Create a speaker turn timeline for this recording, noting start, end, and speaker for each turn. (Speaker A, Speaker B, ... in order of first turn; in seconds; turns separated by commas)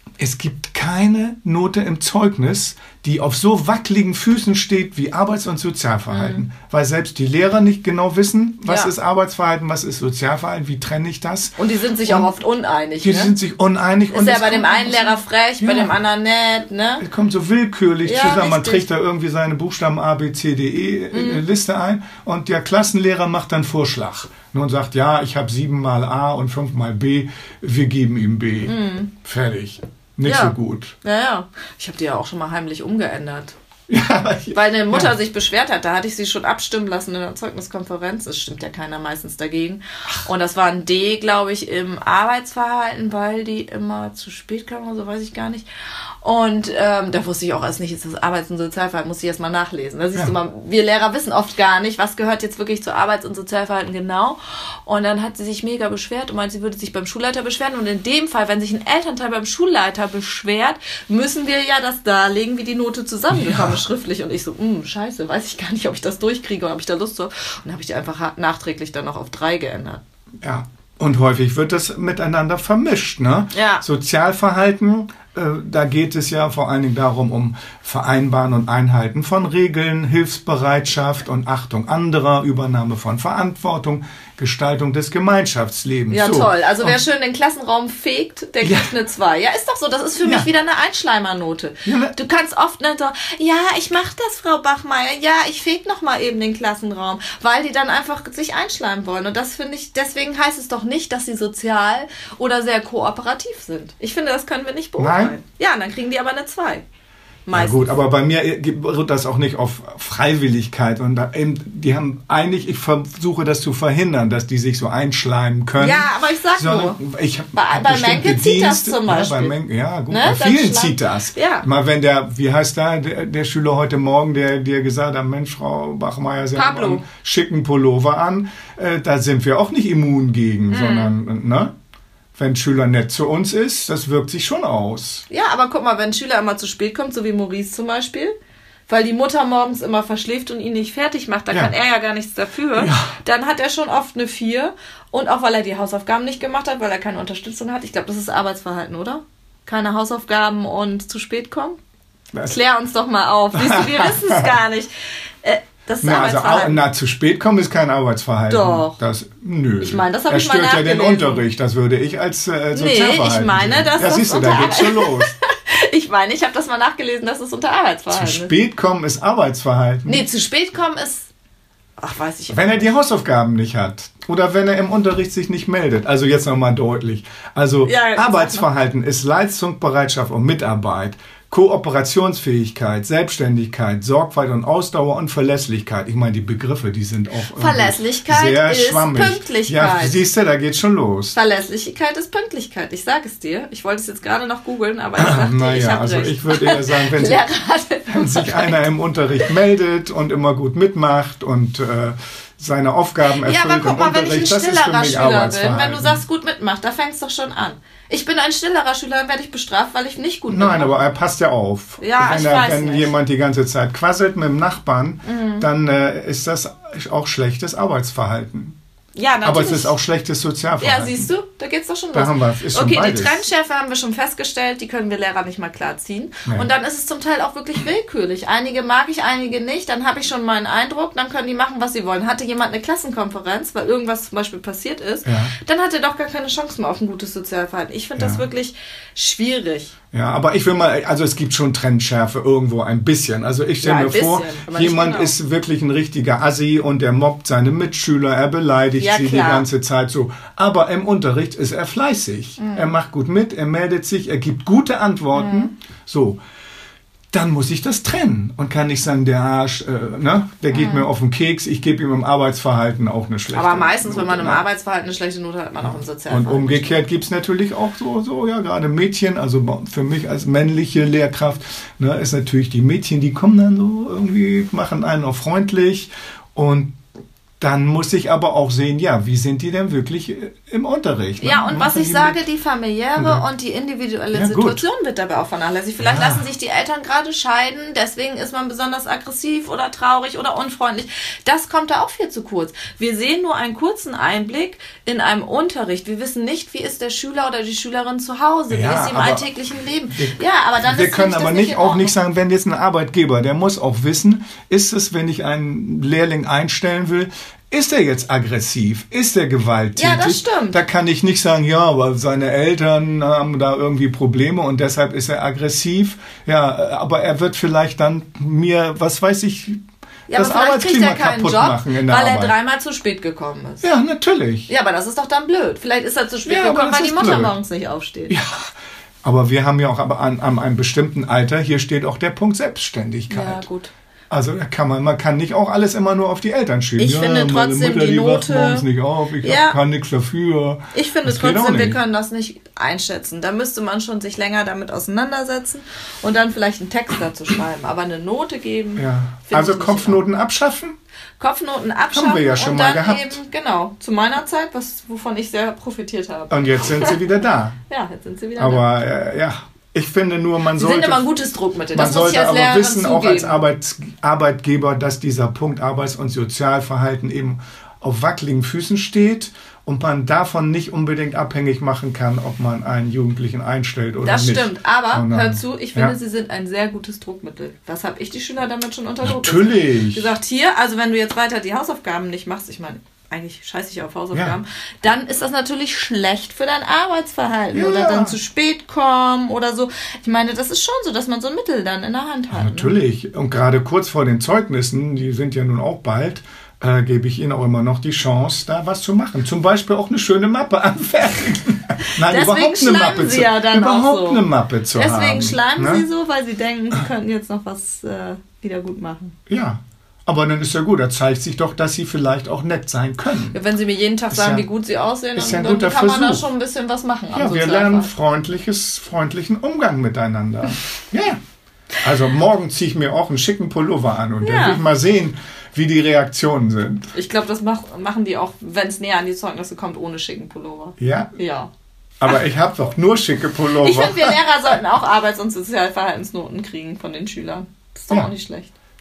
Speaker A: 0.2-12.3, Speaker B: 6.1-6.4, Speaker B: 8.7-8.9, Speaker B: 11.6-13.3, Speaker A: 13.0-15.9, Speaker B: 14.1-17.1, Speaker A: 17.0-30.9, Speaker B: 18.0-18.9, Speaker B: 21.1-21.4, Speaker B: 28.6-29.1, Speaker B: 30.2-33.5, Speaker A: 33.9-35.1, Speaker B: 34.5-45.7, Speaker B: 46.2-70.0, Speaker A: 63.3-63.8, Speaker A: 70.4-87.0, Speaker B: 73.5-73.8, Speaker B: 86.1-106.8, Speaker A: 88.6-88.9, Speaker A: 90.2-90.5, Speaker A: 91.8-92.2, Speaker A: 105.0-105.3, Speaker B: 107.5-108.0, Speaker A: 107.5-131.7, Speaker B: 115.8-117.0, Speaker B: 117.5-119.5, Speaker B: 120.1-121.7, Speaker B: 126.5-127.0, Speaker B: 130.7-131.1, Speaker A: 132.3-135.2, Speaker B: 135.3-138.3, Speaker B: 138.9-151.8, Speaker A: 142.8-143.1, Speaker B: 152.5-156.8, Speaker A: 153.5-154.5, Speaker A: 156.0-165.3, Speaker B: 158.5-159.0, Speaker B: 159.8-161.5, Speaker B: 162.7-168.5, Speaker A: 168.1-170.2, Speaker B: 170.1-171.3, Speaker B: 172.0-172.9, Speaker A: 172.5-191.3, Speaker B: 177.8-178.7, Speaker B: 187.6-190.2, Speaker B: 191.3-198.9, Speaker A: 195.2-197.5, Speaker A: 198.1-206.2, Speaker B: 203.3-211.0, Speaker A: 210.5-218.8, Speaker B: 212.0-213.1, Speaker B: 215.2-215.7, Speaker B: 219.1-219.9, Speaker A: 219.4-221.3, Speaker B: 220.8-239.9, Speaker A: 222.1-223.4, Speaker A: 235.2-235.5, Speaker A: 238.2-238.4, Speaker A: 240.1-256.4, Speaker B: 243.8-245.3, Speaker B: 249.0-249.7, Speaker B: 252.6-252.9, Speaker B: 255.3-255.7, Speaker A: 257.3-264.6, Speaker B: 260.7-261.1, Speaker B: 263.5-267.1, Speaker A: 265.8-276.9, Speaker A: 277.6-282.4, Speaker B: 281.4-302.1, Speaker A: 283.2-283.4, Speaker A: 284.3-284.8, Speaker A: 286.0-286.5, Speaker A: 298.7-299.5, Speaker A: 300.1-322.5, Speaker B: 309.9-310.8, Speaker B: 320.3-323.9, Speaker A: 323.8-324.7, Speaker B: 324.7-328.4, Speaker A: 326.4-327.5, Speaker A: 328.3-328.7, Speaker A: 329.2-333.7, Speaker B: 333.3-333.9, Speaker A: 334.3-342.0, Speaker B: 337.0-338.9, Speaker B: 339.4-339.8, Speaker B: 340.9-350.2, Speaker A: 348.9-350.9, Speaker B: 351.4-357.2, Speaker A: 352.1-353.4, Speaker A: 356.5-357.8, Speaker B: 357.9-358.9, Speaker A: 358.6-361.3, Speaker B: 360.7-363.6, Speaker A: 361.9-376.1, Speaker B: 374.2-392.9, Speaker A: 379.2-380.3, Speaker A: 384.3-384.6, Speaker A: 387.7-388.4, Speaker A: 392.5-406.1, Speaker B: 402.2-409.4, Speaker A: 409.5-413.6, Speaker B: 413.5-418.1, Speaker A: 414.3-414.7, Speaker A: 415.3-416.5, Speaker A: 417.3-421.4, Speaker A: 422.0-427.1, Speaker B: 424.4-424.8, Speaker B: 427.1-431.7, Speaker A: 431.0-431.3, Speaker A: 432.2-434.4, Speaker B: 433.7-438.7